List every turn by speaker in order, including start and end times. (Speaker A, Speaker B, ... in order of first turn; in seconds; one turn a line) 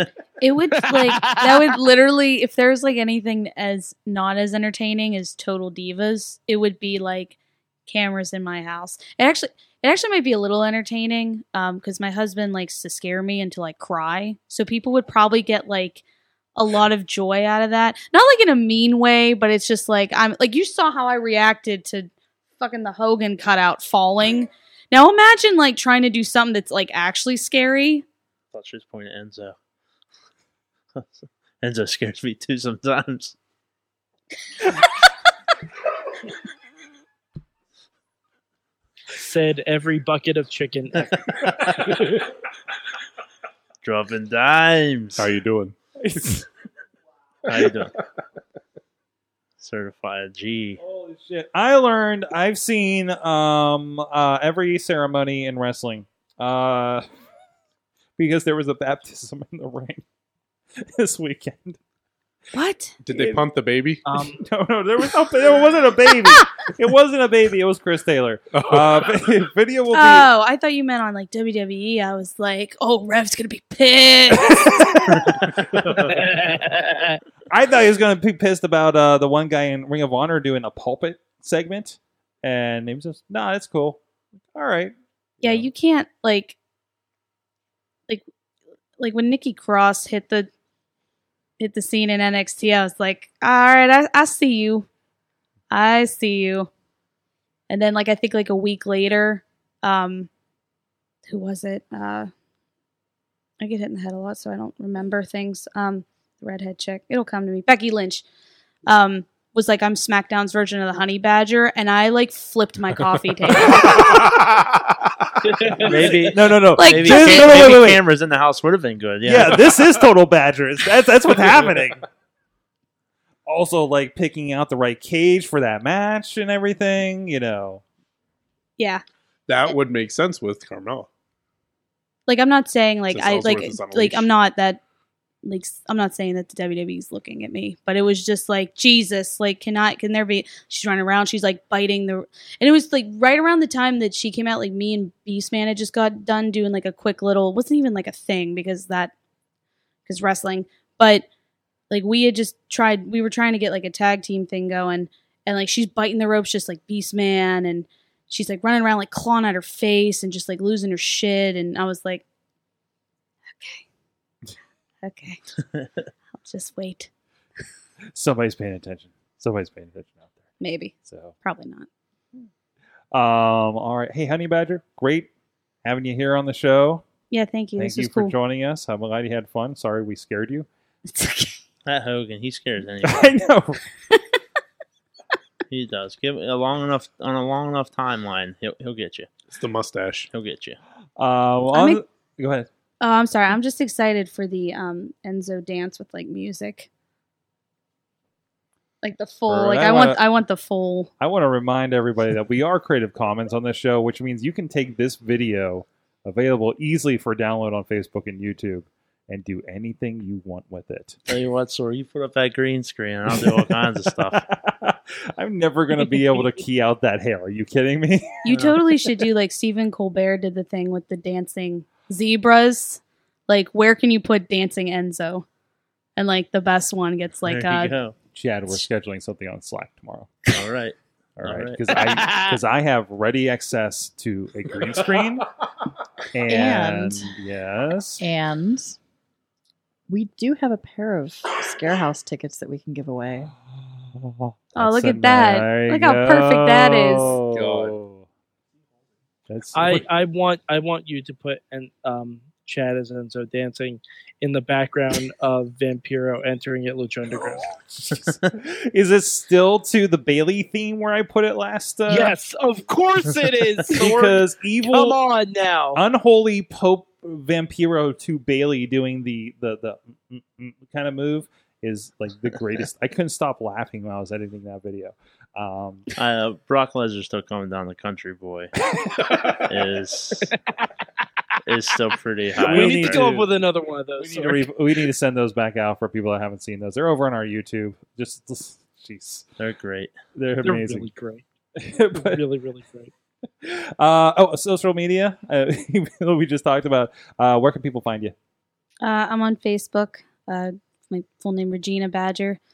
Speaker A: 0.4-16.0
Speaker B: 0.8-1.8
Speaker A: 16.6-28.1
Speaker C: 28.5-29.6
Speaker C: 30.9-33.4
Speaker B: 39.1-41.3
Speaker C: 41.4-42.0
Speaker C: 43.8-45.3
Speaker D: 45.2-45.7
Speaker E: 46.0-46.5
Speaker C: 47.4-47.9
Speaker C: 49.6-50.8
Speaker E: 50.8-57.0
Speaker E: 58.2-60.0
Speaker E: 60.8-61.8
Speaker A: 62.5-63.0
Speaker D: 63.0-64.0
Speaker E: 63.1-63.4
Speaker B: 64.1-64.4
Speaker E: 64.1-70.3
Speaker D: 68.5-69.1
Speaker A: 69.9-75.5
Speaker E: 74.5-75.3
Speaker D: 75.6-76.2
Speaker B: 76.0-77.2
Speaker E: 77.5-84.0
Speaker E: 84.5-85.7
Speaker A: 85.4-86.6
Speaker A: 89.0-90.5
Speaker A: 91.6-94.9
Speaker A: 95.7-96.7
Speaker A: 97.7-100.3
Speaker A: 101.3-102.3
Speaker A: 103.6-108.2
Speaker A: 108.9-114.4
Speaker D: 113.7-115.8
Speaker B: 115.4-116.3
Speaker C: 115.8-119.7
Speaker E: 116.3-118.0
Speaker A: 116.8-117.8
Speaker E: 119.2-122.0
Speaker E: 123.5-127.8
Speaker D: 129.5-131.1
Speaker A: 132.3-134.8
Speaker D: 133.1-134.3
Speaker A: 135.4-149.1
Speaker A: 150.1-151.3
Speaker A: 151.9-162.2
Speaker A: 163.5-163.8
Speaker A: 165.0-165.4
Speaker A: 166.4-167.1
Speaker E: 168.1-170.3
Speaker A: 170.6-171.9
Speaker E: 171.1-171.3
Speaker E: 173.1-175.3
Speaker E: 175.8-177.0
Speaker A: 177.3-178.3
Speaker E: 177.8-180.7
Speaker A: 181.1-181.6
Speaker C: 181.8-183.3
Speaker E: 183.0-183.8
Speaker C: 185.7-189.3
Speaker D: 189.5-190.3
Speaker C: 190.3-190.8
Speaker E: 191.2-192.7
Speaker A: 191.7-192.0
Speaker A: 193.0-196.9
Speaker A: 199.0-201.1
Speaker E: 199.5-200.2
Speaker E: 201.2-211.2
Speaker C: 211.3-214.4
Speaker E: 213.3-213.6
Speaker E: 214.2-218.4
Speaker A: 218.4-225.4
Speaker C: 218.5-218.8
Speaker A: 226.2-227.9
Speaker C: 227.4-228.2
Speaker E: 228.3-230.3
Speaker C: 230.5-232.2
Speaker E: 231.4-235.5
Speaker B: 232.0-232.5
Speaker E: 236.3-238.2
Speaker F: 236.5-237.4
Speaker F: 238.2-239.0
Speaker F: 240.1-243.5
Speaker E: 243.8-248.3
Speaker A: 244.8-247.4
Speaker D: 247.5-247.9
Speaker E: 249.5-250.1
Speaker B: 249.7-257.7
Speaker E: 257.6-262.3
Speaker B: 262.1-266.0
Speaker E: 263.9-265.2
Speaker E: 265.9-276.1
Speaker C: 276.1-278.7
Speaker C: 279.6-280.5
Speaker C: 281.6-283.2
Speaker B: 282.6-284.7
Speaker E: 282.6-283.5
Speaker E: 284.2-289.4
Speaker C: 289.6-290.1
Speaker E: 290.4-291.1
Speaker B: 290.6-291.4
Speaker E: 291.8-292.4
Speaker B: 292.1-293.1
Speaker E: 293.6-298.4
Speaker A: 299.0-302.6